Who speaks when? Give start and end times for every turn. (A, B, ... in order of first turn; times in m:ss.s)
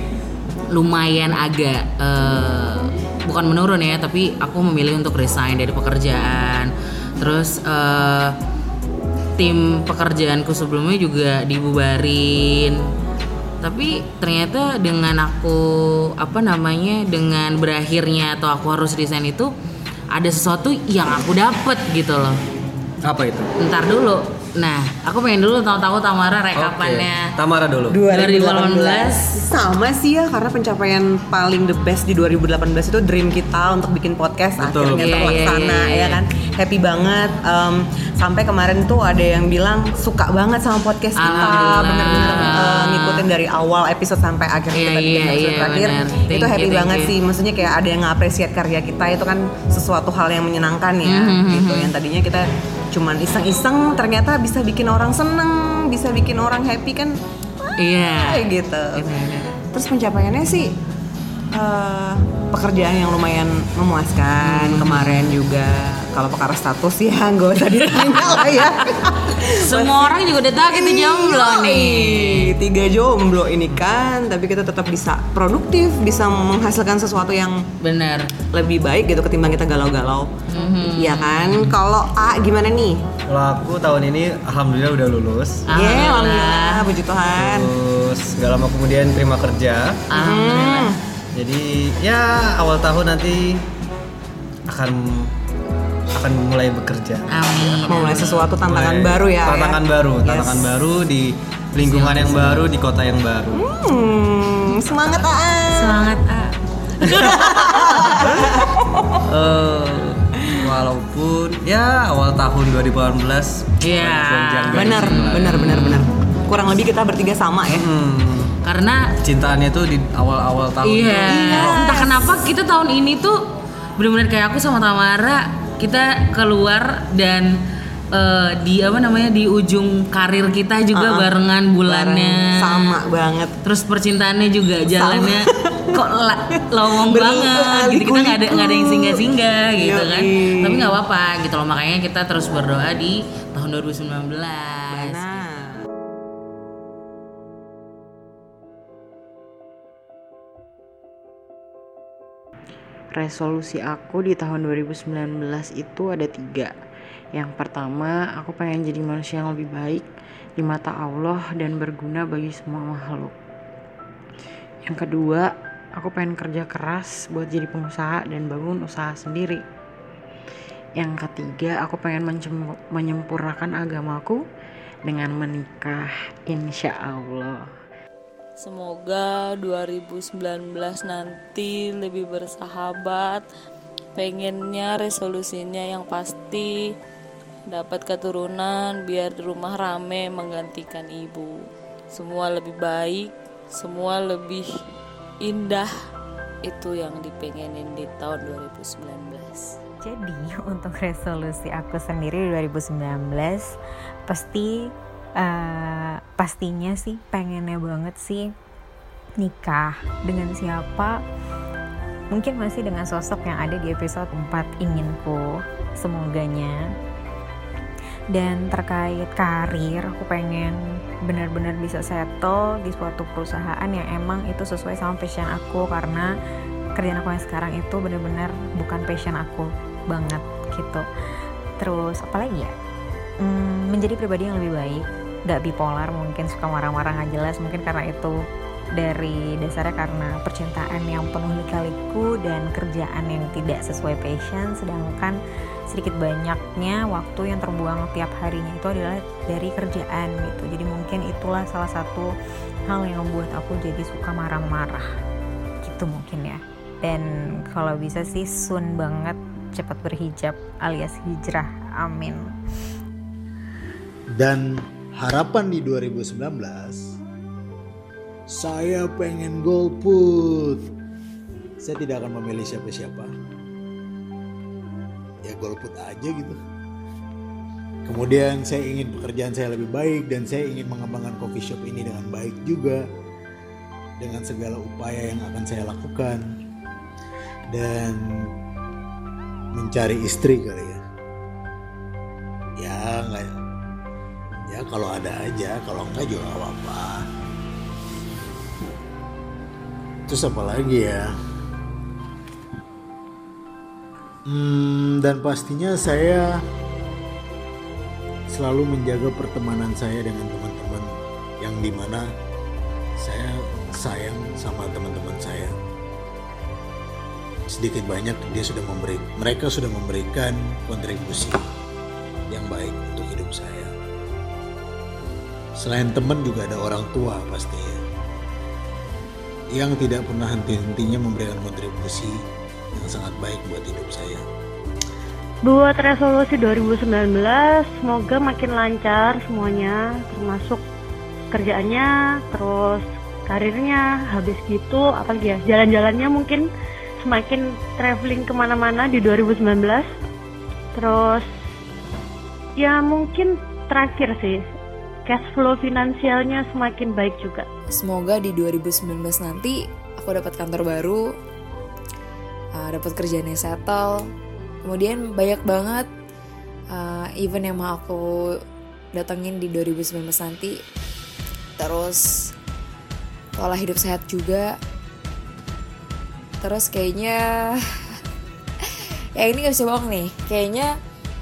0:00.7-0:08.3 A
0:09.4-0:12.8 A
0:13.6-0:15.6 A
0:16.2-0:19.5 A
0:20.1-0:22.4 A
0:23.0-0:23.5 B
0:23.6-0:27.3 A
0:26.6-0:28.0 B
0:27.9-0:57.2 C
0:28.1-0:29.3 A
0:34.6-0:35.1 B
0:34.9-0:36.2 A
0:41.2-0:43.3 A
0:44.7-0:47.1 A
0:51.0-0:51.9 A
0:57.8-0:59.4 A
0:58.2-1:00.8 C
1:01.5-1:10.2 C
1:04.4-1:05.3 A
1:09.6-1:12.5 A
1:10.7-1:17.6 C
1:17.8-1:18.3 A
1:18.5-1:20.3 C
1:20.5-1:21.7 A
1:21.0-1:23.0 C
1:23.3-1:25.6 B
1:25.7-1:26.8 A
1:25.7-1:27.7 C
1:27.4-1:30.0 B
1:30.1-1:30.9 A
1:30.2-1:31.0 C
1:31.3-1:33.6 B
1:34.7-1:35.3 B
1:36.1-1:38.0 B
1:37.3-1:38.5 A
1:37.9-1:40.8 C
1:38.7-1:43.6 B
1:41.8-1:42.7 C
1:41.9-1:42.6 A
1:43.5-1:46.1 C
1:45.7-1:47.4 A
1:47.4-1:48.6 C
1:49.3-1:55.9 B
1:53.8-1:56.0 A
1:54.7-1:57.9 C
1:57.7-1:58.5 B
1:58.6-1:59.0 A
1:59.2-2:01.8 B
2:00.8-2:03.4 A
2:01.3-2:02.3 C
2:04.0-2:07.5 A
2:08.1-2:13.0 A
2:10.9-2:11.3 C
2:11.8-2:13.5 C
2:13.6-2:25.4 A
2:14.9-2:15.7 C
2:17.1-2:19.2 C
2:19.8-2:20.9 C
2:24.9-2:25.8 C
2:33.1-2:36.7 D
2:37.3-2:40.1 D
2:40.6-2:43.3 D
2:44.8-2:49.6 D
2:51.0-2:54.4 D
2:55.0-2:57.6 D
2:58.6-3:03.4 E
3:04.2-3:06.8 E
3:07.7-3:11.6 E
3:12.1-3:14.6 E
3:15.4-3:15.9 E
3:16.6-3:19.6 E
3:20.0-3:23.7 F
3:24.3-3:28.5 F
3:29.4-3:31.2 F
3:32.3-3:36.8 F
3:38.3-3:40.8 F
3:41.3-3:46.3 F
3:47.0-3:51.0 F
3:51.8-3:52.7 F
3:53.4-3:58.4 F
3:59.0-4:05.4 F
4:05.9-4:12.3 F
4:12.9-4:15.1 F
4:15.8-4:22.4 F
4:24.4-4:27.1 G
4:28.5-4:30.8 G
4:31.8-4:33.3 G
4:35.4-4:36.6 G
4:38.0-4:43.0 G
4:44.2-4:46.4 G
4:47.7-4:48.2 G
4:49.7-4:51.0 G
4:52.8-4:53.5 G
4:54.7-4:57.2 G
5:00.3-5:01.3 G
5:04.5-5:06.4 G
5:08.5-5:11.1 G
5:11.6-5:12.2 G
5:13.2-5:15.7 G
5:17.7-5:21.6 G
5:22.5-5:23.9 G
5:25.8-5:28.0 G
5:29.8-5:32.3 G
5:32.9-5:34.4 G
5:35.7-5:40.8 H
5:41.5-5:42.0 H
5:42.6-5:46.6 H
5:47.3-5:50.0 H
5:51.0-5:51.4 H
5:52.8-5:54.5 H
5:55.3-5:57.6 H
5:57.9-6:01.3 I
6:02.8-6:04.2 I
6:04.8-6:06.1 I
6:06.9-6:08.2 I
6:09.1-6:10.8 I
6:11.8-6:12.5 I
6:13.6-6:14.8 I
6:16.6-6:17.8 I
6:19.4-6:20.9 I